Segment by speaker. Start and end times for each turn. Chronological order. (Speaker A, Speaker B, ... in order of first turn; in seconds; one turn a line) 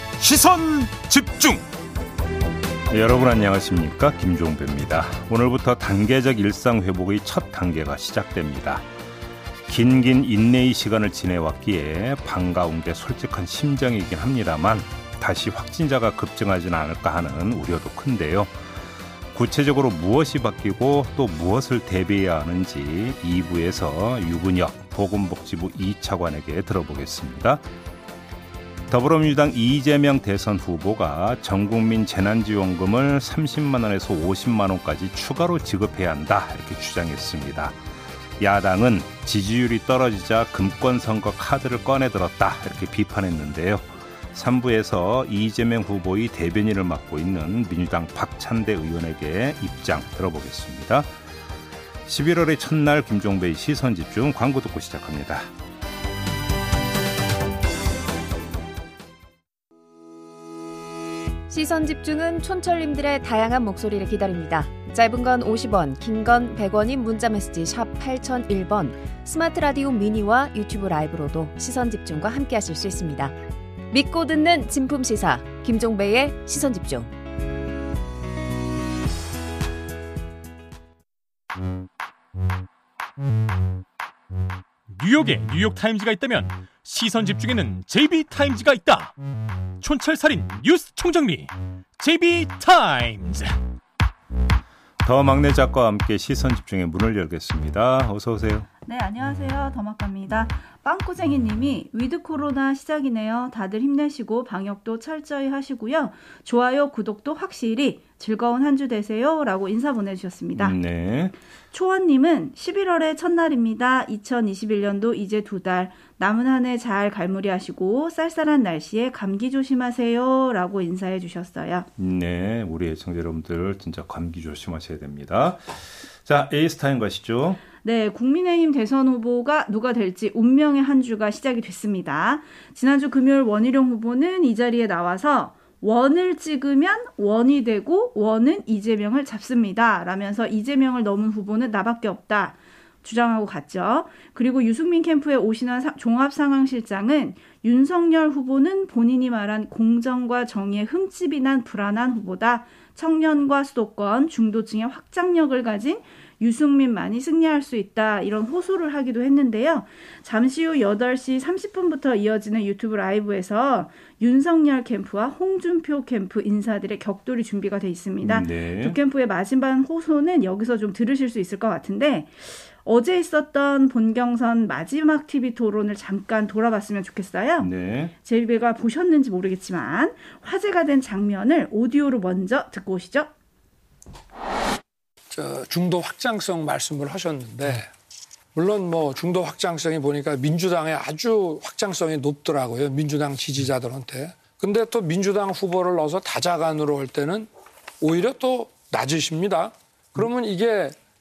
Speaker A: 0.3-1.6
Speaker B: 2.9-8.8
Speaker B: 9.7-18.6
Speaker B: 19.3-27.6
Speaker B: 28.9-37.8
Speaker B: 38.4-51.1
Speaker B: 52.1-55.5
Speaker C: 61.5-73.3
Speaker C: 73.9-77.1
Speaker A: 84.9-89.1
Speaker A: 89.8-93.6
Speaker B: 95.0-98.7
Speaker D: 98.8-110.8
Speaker B: 110.5-111.4
Speaker D: 111.7-121.9
Speaker B: 122.0-127.6
Speaker D: 127.8-183.3
Speaker B: 168.2-169.0
Speaker B: 177.6-178.1
Speaker E: 185.3-187.9
Speaker E: 188.6-197.5
Speaker E: 198.0-201.0